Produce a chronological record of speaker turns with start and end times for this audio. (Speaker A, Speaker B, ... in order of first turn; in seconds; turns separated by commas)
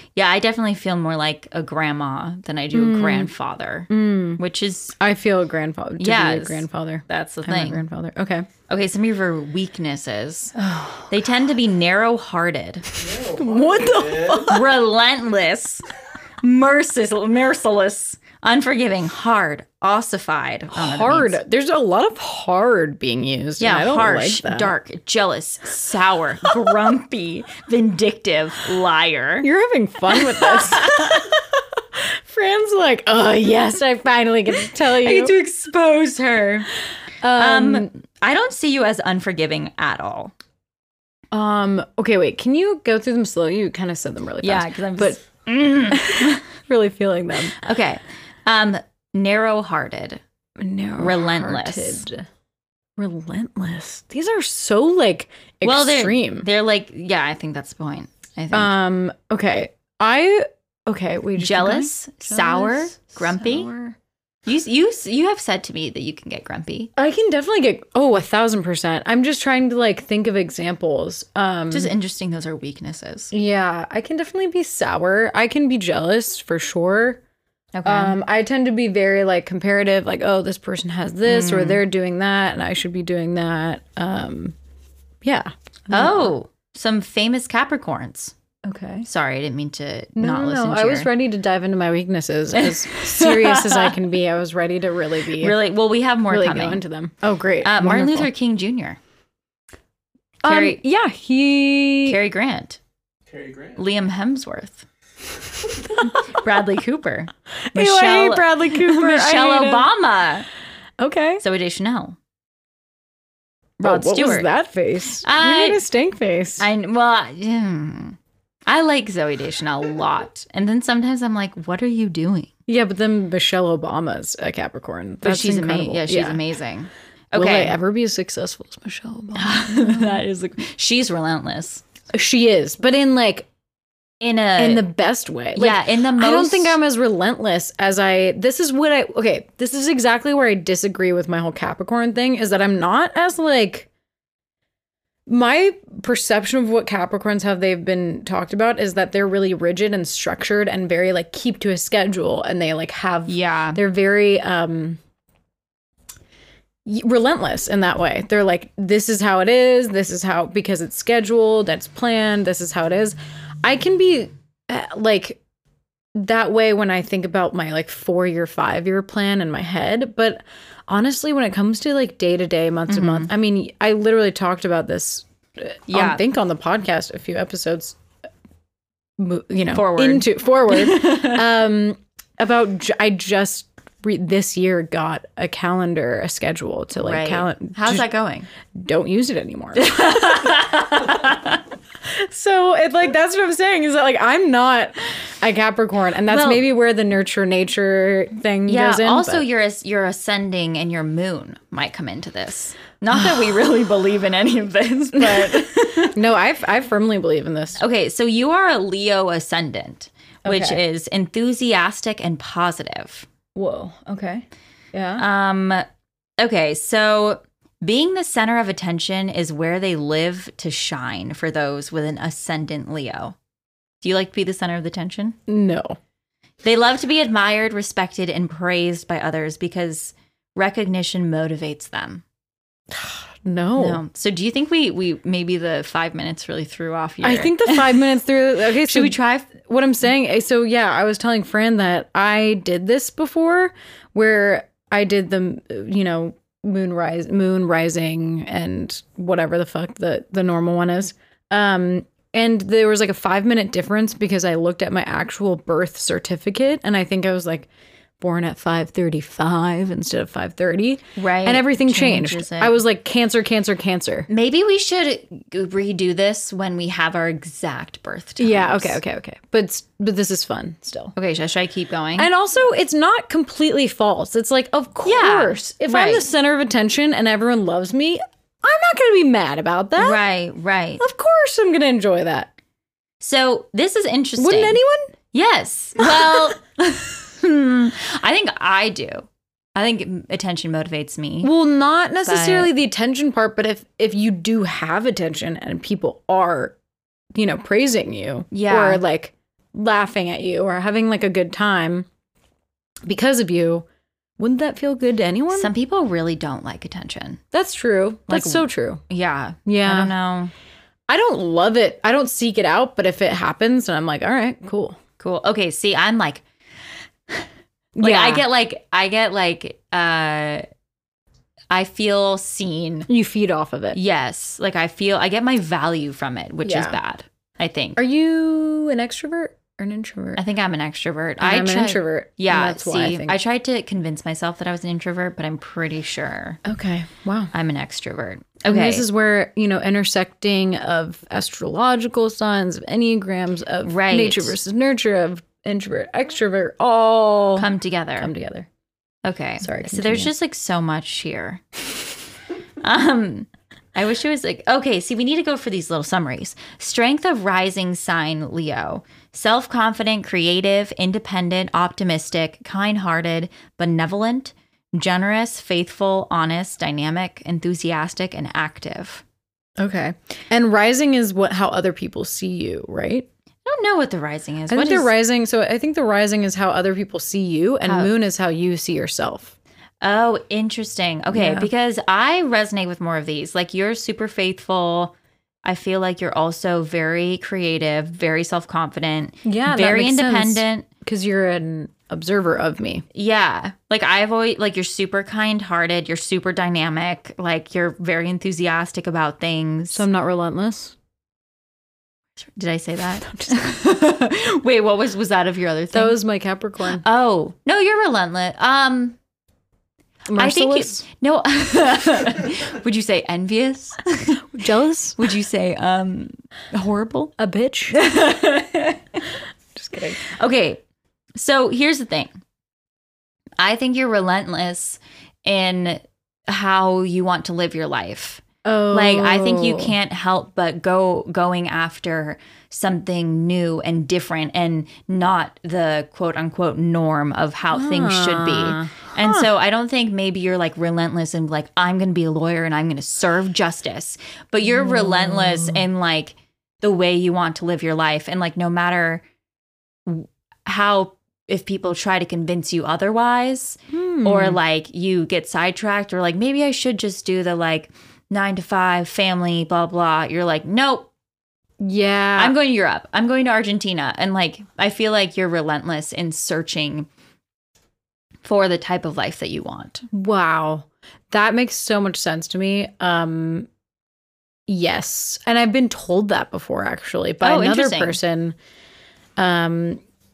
Speaker A: 0.1-5.0, Speaker B: 2.7-3.3, Speaker B: 3.9-4.4, Speaker B: 5.0-8.5, Speaker A: 6.0-7.8, Speaker A: 8.7-10.6, Speaker B: 10.6-11.1, Speaker A: 11.1-12.9, Speaker C: 12.9-14.5, Speaker B: 13.2-14.7, Speaker A: 14.4-15.8, Speaker A: 16.4-21.4, Speaker B: 20.7-24.7, Speaker A: 23.6-29.5, Speaker B: 29.4-35.4, Speaker A: 30.1-31.3, Speaker A: 34.9-36.7, Speaker B: 37.2-37.9, Speaker A: 37.3-40.3, Speaker B: 41.3-45.2, Speaker A: 44.4-46.4, Speaker B: 45.9-47.6, Speaker A: 47.5-50.2, Speaker B: 50.6-52.2, Speaker A: 51.0-52.0, Speaker B: 53.0-56.5, Speaker A: 55.6-58.7, Speaker B: 58.5-64.0, Speaker A: 61.4-63.7, Speaker A: 64.5-66.9, Speaker B: 67.0-71.9, Speaker A: 71.7-73.3, Speaker B: 73.3-77.2, Speaker A: 77.8-78.2, Speaker B: 77.9-84.6, Speaker A: 81.3-81.8, Speaker B: 85.2-86.3, Speaker A: 85.9-88.3, Speaker B: 88.6-89.1, Speaker A: 89.0-91.1, Speaker B: 90.2-95.6, Speaker A: 92.5-93.9, Speaker A: 95.4-96.8, Speaker B: 96.3-98.3, Speaker A: 97.6-99.0, Speaker B: 100.4-102.2, Speaker A: 100.5-100.8, Speaker A: 102.1-102.8, Speaker C: 103.3-103.8, Speaker A: 103.8-104.9, Speaker A: 106.0-110.5, Speaker B: 107.7-109.9, Speaker B: 111.0-111.4, Speaker A: 111.4-112.2, Speaker B: 113.8-116.7, Speaker A: 113.8-114.5, Speaker A: 115.2-115.8, Speaker A: 116.6-122.5, Speaker B: 122.7-126.4, Speaker A: 125.2-127.8, Speaker B: 127.3-130.2, Speaker A: 129.3-131.8, Speaker B: 132.1-133.5, Speaker A: 134.2-134.9, Speaker B: 134.6-143.9, Speaker A: 135.6-136.8, Speaker B: 145.3-155.0, Speaker A: 153.3-153.8, Speaker B: 156.9-165.4, Speaker B: 166.2-178.0, Speaker A: 172.9-173.3, Speaker A: 175.9-176.2, Speaker B: 179.2-188.1, Speaker A: 179.7-181.4, Speaker A: 187.0-188.5, Speaker B: 188.7-190.7, Speaker A: 189.8-191.6, Speaker B: 192.1-199.4, Speaker A: 196.3-196.6, Speaker A: 198.7-206.2, Speaker B: 205.2-207.8, Speaker A: 207.8-213.3, Speaker B: 210.4-210.8, Speaker B: 213.6-215.2, Speaker A: 215.2-215.8, Speaker A: 216.4-223.4, Speaker A: 224.0-225.4, Speaker B: 225.5-226.0, Speaker A: 226.6-232.2, Speaker B: 232.9-234.0, Speaker A: 233.8-238.0, Speaker B: 237.2-257.7, Speaker A: 238.8-239.5, Speaker B: 258.2-264.3, Speaker A: 261.2-262.8, Speaker A: 264.3-269.0, Speaker B: 268.4-271.1, Speaker A: 271.2-272.3, Speaker B: 272.2-280.2, Speaker A: 275.1-276.2, Speaker A: 280.0-281.0, Speaker B: 281.0-282.5, Speaker A: 283.2-284.8, Speaker B: 284.4-285.1, Speaker A: 285.3-291.5, Speaker B: 286.0-286.4, Speaker B: 291.4-296.8, Speaker A: 292.2-292.7, Speaker B: 297.3-302.1, Speaker A: 298.5-299.0, Speaker B: 303.0-303.9, Speaker B: 304.4-305.7, Speaker A: 305.5-307.4, Speaker B: 307.5-309.0, Speaker A: 308.3-310.5, Speaker B: 309.7-310.1, Speaker B: 311.1-315.0, Speaker A: 315.2-316.4, Speaker B: 318.0-318.4, Speaker A: 318.0-320.6, Speaker A: 321.7-323.1, Speaker B: 323.1-324.0, Speaker A: 323.9-328.0, Speaker B: 326.6-327.0, Speaker B: 328.0-330.4, Speaker A: 330.4-336.6, Speaker B: 331.4-333.4, Speaker B: 336.6-337.5, Speaker A: 337.5-339.1, Speaker B: 338.7-348.7, Speaker A: 343.8-344.6, Speaker A: 347.6-348.3, Speaker A: 349.2-351.6, Speaker B: 349.6-350.3, Speaker A: 352.8-369.2, Speaker B: 369.8-373.3, Speaker A: 373.6-375.1, Speaker B: 374.7-379.5, Speaker A: 380.0-385.1, Speaker B: 381.3-381.7, Speaker A: 385.6-390.9, Speaker B: 389.4-393.1, Speaker A: 393.1-400.1, Speaker B: 399.9-400.9, Speaker A: 402.4-406.2, Speaker B: 403.4-403.7, Speaker B: 405.9-407.0, Speaker A: 406.9-409.2, Speaker B: 410.3-411.0, Speaker A: 410.3-414.4, Speaker B: 414.5-415.3, Speaker A: 415.2-417.3, Speaker B: 417.4-418.0, Speaker A: 417.9-419.3, Speaker B: 419.8-420.2, Speaker A: 420.2-420.8, Speaker A: 421.4-422.3, Speaker A: 423.6-449.2, Speaker B: 428.6-429.9, Speaker B: 437.7-439.5, Speaker B: 444.6-445.8, Speaker A: 450.1-461.1, Speaker B: 453.9-454.6, Speaker B: 461.8-462.6, Speaker A: 462.4-467.1, Speaker A: 468.4-470.1, Speaker B: 470.1-473.7, Speaker B: 474.7-478.6, Speaker A: 477.4-478.2, Speaker B: 479.4-480.0